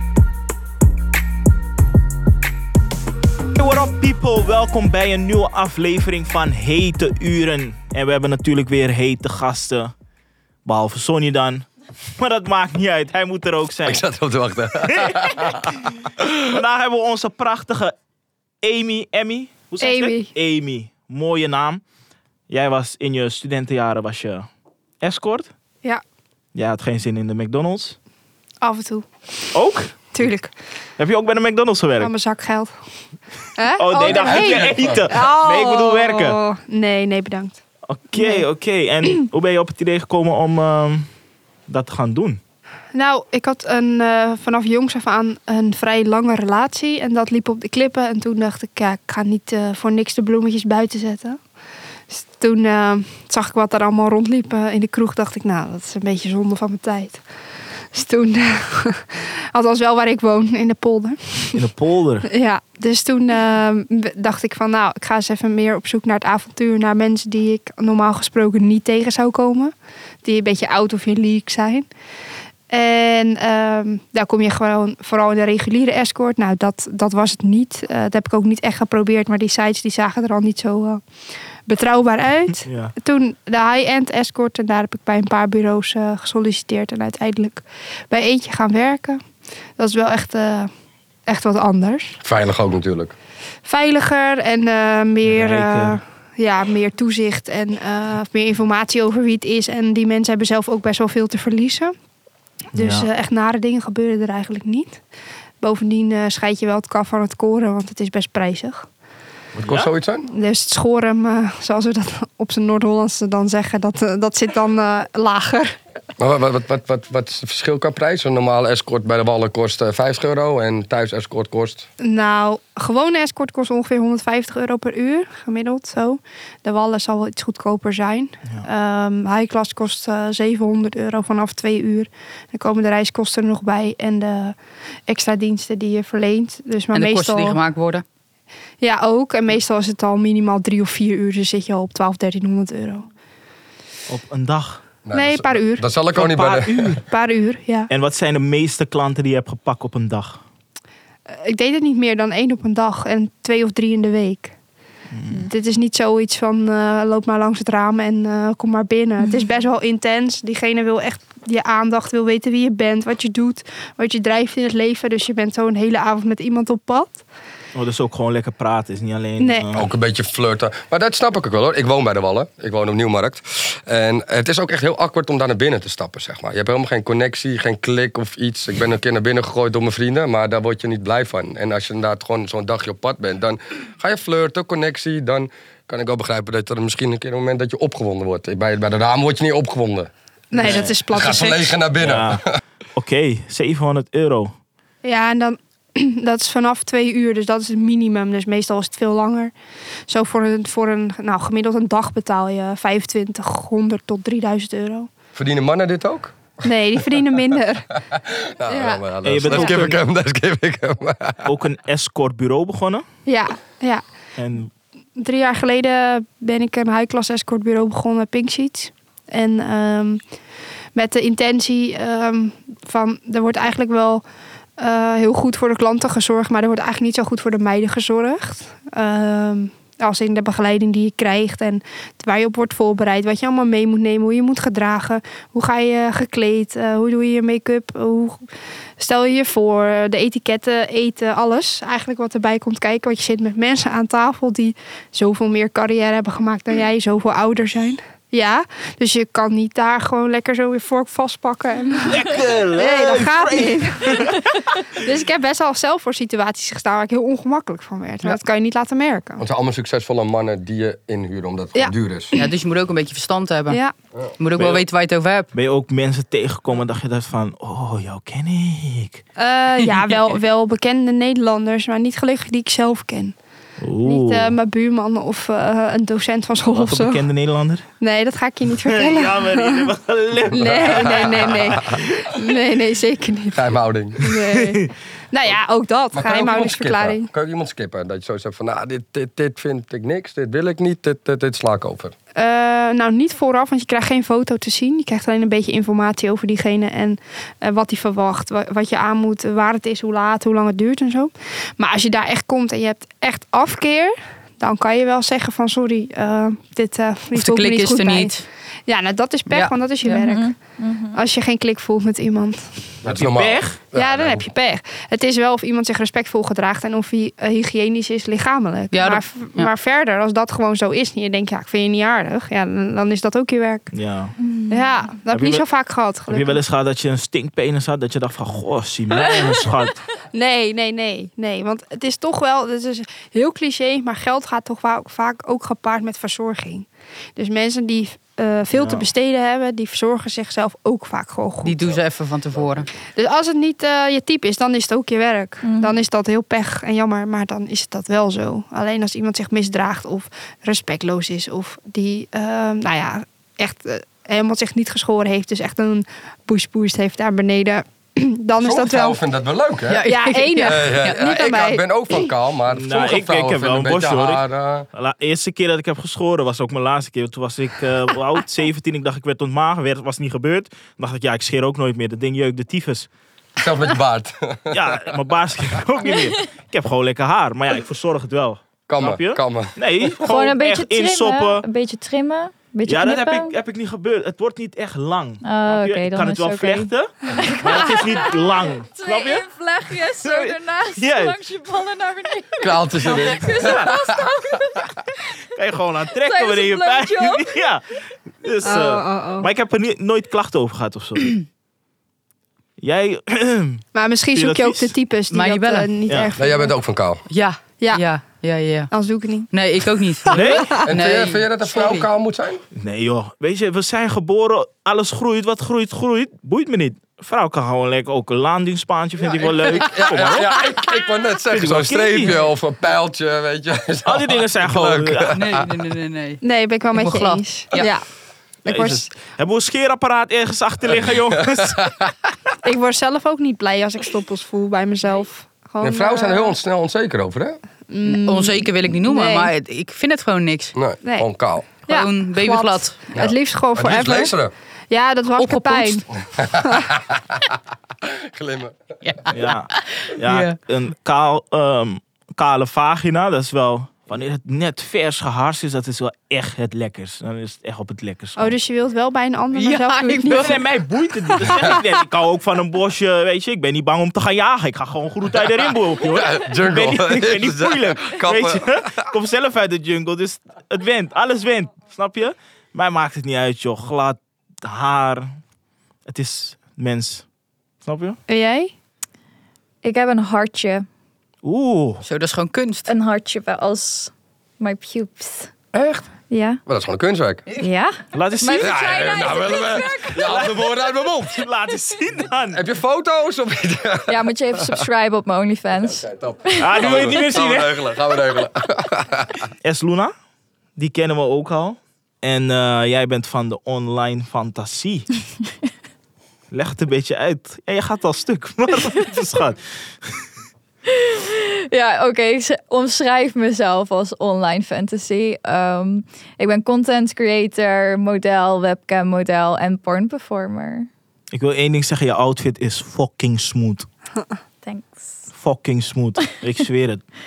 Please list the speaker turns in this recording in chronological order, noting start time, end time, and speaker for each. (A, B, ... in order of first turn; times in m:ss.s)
0:03.6-0:09.9 A
0:10.6-0:11.6 A
0:12.2-0:14.0 A
0:13.8-0:16.6 B
0:14.8-0:17.9 A
0:18.6-0:21.8 A
0:19.8-0:20.3 C
0:22.5-0:24.5 A
0:25.0-0:25.5 A
0:26.5-0:28.0 A
0:28.6-0:29.1 C
0:29.5-0:29.9 A
0:30.1-0:30.5 C
0:31.0-0:32.1 A
0:32.0-0:32.7 C
0:33.6-0:37.6 C
0:33.8-0:36.4 A
0:34.0-0:35.0 B
0:37.9-0:41.1 A
0:38.2-0:38.4 C
0:41.7-0:42.4 A
0:42.9-0:51.4 C
0:52.1-0:57.2 C
0:57.9-1:01.6 C
1:01.5-1:02.3 A
1:02.2-1:11.9 C
1:12.7-1:21.0 C
1:21.6-1:29.2 C
1:22.6-1:22.9 A
1:29.8-1:30.7 C
1:31.3-1:32.2 C
1:32.2-1:33.1 B
1:33.6-1:41.9 C
1:35.2-1:36.0 A
1:42.7-1:43.1 A
1:42.8-1:45.0 C
1:45.6-1:48.9 C
1:49.5-1:50.3 B
1:49.6-1:49.9 A
1:50.2-1:55.8 C
1:56.2-2:01.9 B
2:02.0-2:17.6 C
2:16.9-2:18.0 D
2:18.8-2:23.1 C
2:24.1-2:25.0 A
2:25.0-2:27.0 B
2:25.1-2:25.9 C
2:26.1-2:27.0 A
2:27.0-2:27.9 C
2:27.9-2:30.4 A
2:31.3-2:34.5 C
2:35.1-2:35.4 A
2:35.3-2:47.2 C
2:47.7-2:49.8 A
2:49.4-2:49.7 C
2:49.7-3:12.6 B
3:10.5-3:11.8 C
3:10.6-3:11.0 A
3:12.0-3:12.4 A
3:12.9-3:14.5 A
3:15.0-3:19.5 C
3:20.1-3:25.1 C
3:25.3-3:26.4 B
3:26.6-3:28.0 C
3:28.1-3:31.4 B
3:28.7-3:29.8 C
3:29.2-3:30.0 A
3:31.4-3:33.0 A
3:33.2-3:34.0 C
3:34.4-3:34.7 A
3:35.2-3:40.3 C
3:40.9-3:44.2 C
3:44.8-3:58.5 C
3:59.0-4:19.4 C
4:12.0-4:14.9 A
4:19.4-4:22.3 B
4:21.8-4:22.5 C
4:22.3-4:23.8 D
4:24.4-4:25.5 D
4:24.6-4:24.8 A
4:25.5-4:29.2 A
4:29.4-4:33.4 C
4:29.8-4:30.2 D
4:33.8-4:34.6 A
4:34.0-4:37.2 C
4:36.7-4:37.8 A
4:38.0-4:39.9 C
4:38.8-4:42.1 A
4:40.5-4:43.7 C
4:40.5-4:42.0 B
4:43.5-4:44.2 B
4:44.2-4:47.3 C
4:44.2-4:44.9 A
4:46.1-4:52.1 B
4:52.3-5:08.4 C
5:07.3-5:08.4 D
5:08.9-5:10.5 C
5:10.0-5:11.2 E
5:11.1-5:13.0 C
5:13.0-5:14.5 B
5:13.1-5:13.8 A
5:13.9-5:23.9 C
5:18.9-5:19.7 D
5:23.9-5:24.3 A
5:24.4-5:24.9 E
5:24.7-5:26.6 C
5:25.3-5:25.6 A
5:26.3-5:30.0 A
5:30.3-5:41.9 C
5:38.7-5:39.1 A
5:41.6-5:42.9 D
5:43.1-5:59.2 C
5:45.6-5:46.0 E
5:58.6-6:00.0 B
5:59.9-6:01.2 D
6:00.0-6:02.3 C
6:00.6-6:04.9 B
6:02.7-6:13.1 A
6:13.6-6:15.1 B
6:14.7-6:21.6 A
6:18.9-6:20.1 B
6:20.2-6:23.5 E
6:22.8-6:29.4 A
6:25.4-6:35.2 E
6:30.2-6:31.4 A
6:32.6-6:34.2 B
6:33.3-6:33.9 A
6:35.5-6:37.8 A
6:36.2-6:37.6 E
6:38.4-6:41.4 A
6:38.6-6:39.5 C
6:42.8-6:44.9 A
6:43.9-6:46.7 C
6:45.3-6:45.9 D
6:46.1-6:46.3 A
6:46.4-6:47.2 B
6:47.3-6:48.9 D
6:48.9-6:49.5 C
6:49.5-6:52.1 D
6:50.2-6:50.8 C
6:50.3-6:50.7 A
6:50.8-6:52.6 B
6:52.8-7:00.5 A
6:59.4-7:00.5 D
6:59.7-7:05.7 B
7:01.5-7:02.4 A
7:04.0-7:05.4 A
7:05.3-7:07.9 D
7:06.4-7:08.1 C
7:08.6-7:11.9 A
7:08.7-7:09.1 C
7:11.5-7:12.1 B
7:12.6-7:16.5 C
7:15.8-7:17.6 B
7:17.9-7:19.5 C
7:18.0-7:20.7 D
7:20.7-7:21.6 B
7:21.8-7:23.0 D
7:21.9-7:24.4 C
7:23.2-7:24.5 B
7:24.9-7:26.1 C
7:25.3-7:26.0 D
7:26.3-7:27.3 B
7:26.6-7:26.9 C
7:28.0-7:28.8 B
7:29.0-7:30.6 D
7:29.3-7:38.6 A
7:38.4-7:40.8 C
7:39.5-7:40.6 D
7:40.3-7:55.3 A
7:41.4-7:41.8 C
7:46.1-7:49.1 B
7:56.0-7:57.2 A
7:57.8-7:58.2 A
7:58.3-7:58.7 C
7:59.8-8:00.9 E
8:01.4-8:02.0 A
8:02.0-8:02.9 D
8:02.9-8:05.5 E
8:05.7-8:06.0 A
8:06.3-8:06.6 E
8:06.6-8:07.4 B
8:07.6-8:10.2 E
8:08.1-8:08.7 A
8:08.6-8:11.4 B
8:10.1-8:12.6 A
8:12.5-8:14.8 B
8:14.1-8:16.8 E
8:15.9-8:19.5 B
8:16.6-8:17.8 A
8:19.6-8:20.1 A
8:20.8-8:25.1 A
8:26.5-8:30.2 A
8:30.9-8:40.9 E
8:41.3-8:43.9 A
8:44.6-8:45.3 E
8:45.3-8:47.0 A